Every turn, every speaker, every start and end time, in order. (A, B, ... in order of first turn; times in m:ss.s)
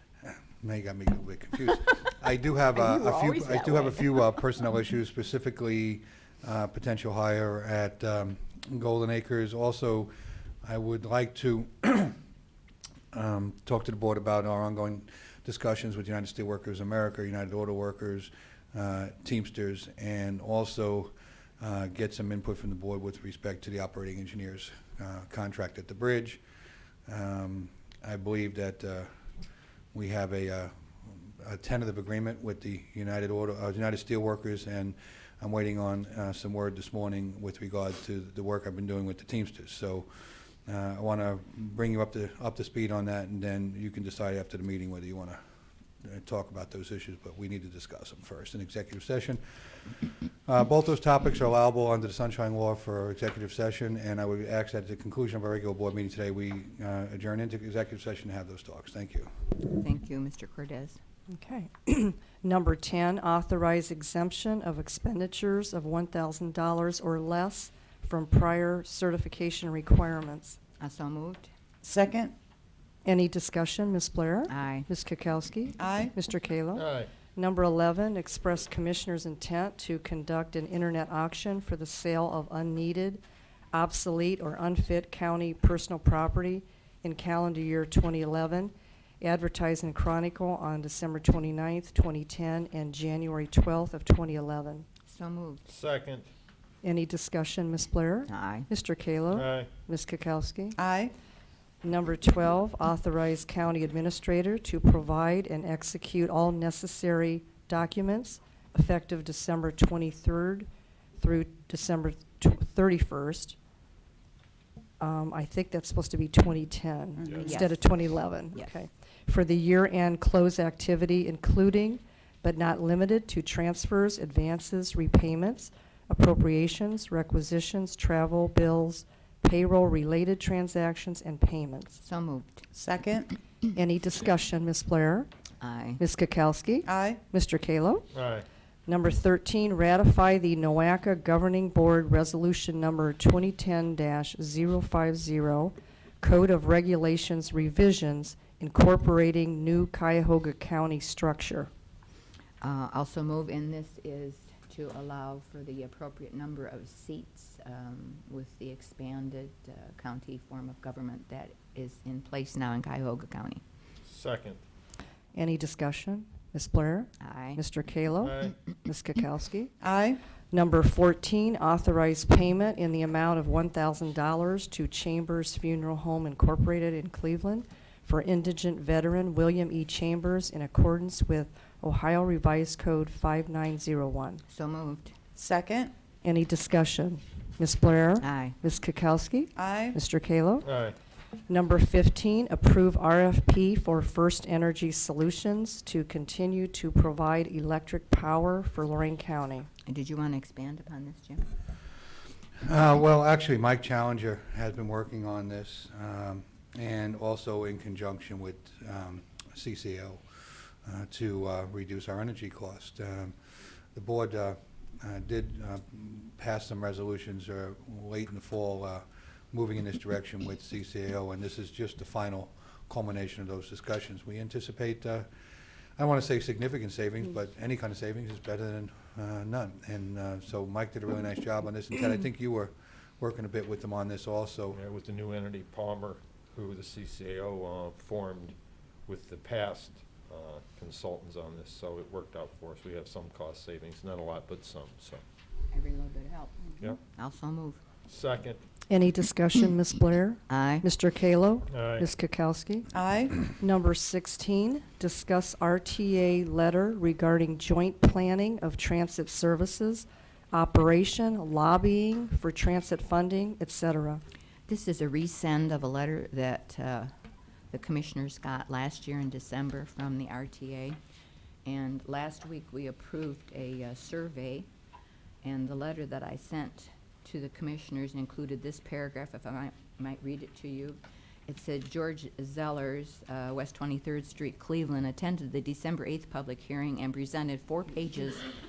0:00.2-0:10.1 A
0:03.6-0:03.8 B
0:10.6-0:12.2 A
0:13.1-0:26.4 A
0:27.1-0:29.1 A
0:29.9-0:40.1 A
0:40.7-0:45.4 A
0:46.0-0:49.9 A
0:50.5-0:59.3 A
0:59.7-1:01.0 B
1:01.4-1:10.6 C
1:10.8-1:11.5 B
1:11.8-1:12.3 D
1:13.0-1:23.2 C
1:14.5-1:14.9 B
1:15.8-1:16.2 D
1:16.8-1:17.1 E
1:23.7-1:34.9 C
1:35.1-1:35.6 B
1:35.7-1:36.3 E
1:36.8-1:40.8 C
1:38.3-1:38.7 B
1:39.3-1:39.7 E
1:40.8-1:41.1 D
1:41.8-1:53.6 C
1:55.0-2:12.0 C
1:57.4-1:58.0 B
1:58.5-1:58.8 B
2:12.0-2:12.6 B
2:12.7-2:13.4 D
2:13.8-2:15.3 C
2:15.6-2:16.0 B
2:16.0-2:18.1 C
2:16.8-2:17.2 D
2:18.1-2:18.5 E
2:18.9-2:31.7 C
2:32.6-2:43.6 B
2:44.1-2:44.6 E
2:45.3-2:49.7 C
2:47.2-2:47.6 B
2:48.2-2:48.6 E
2:49.8-2:50.2 D
2:50.5-3:04.4 C
3:04.5-3:05.2 B
3:05.4-3:05.9 D
3:06.2-3:10.7 C
3:08.2-3:08.6 B
3:09.6-3:10.0 D
3:10.6-3:11.0 E
3:11.5-3:19.7 C
3:19.9-3:21.5 B
3:22.6-3:33.4 A
3:34.0-3:45.3 A
3:46.0-3:54.8 A
3:54.7-3:58.5 E
3:59.1-4:05.2 E
4:05.7-4:07.8 B
4:08.1-4:08.6 E
4:08.9-4:12.9 C
4:10.5-4:10.9 B
4:11.7-4:12.1 E
4:12.9-4:13.5 D
4:13.5-4:24.2 C
4:24.7-4:27.1 B
4:27.7-4:31.0 B
4:31.6-4:34.7 B
4:35.4-4:48.5 B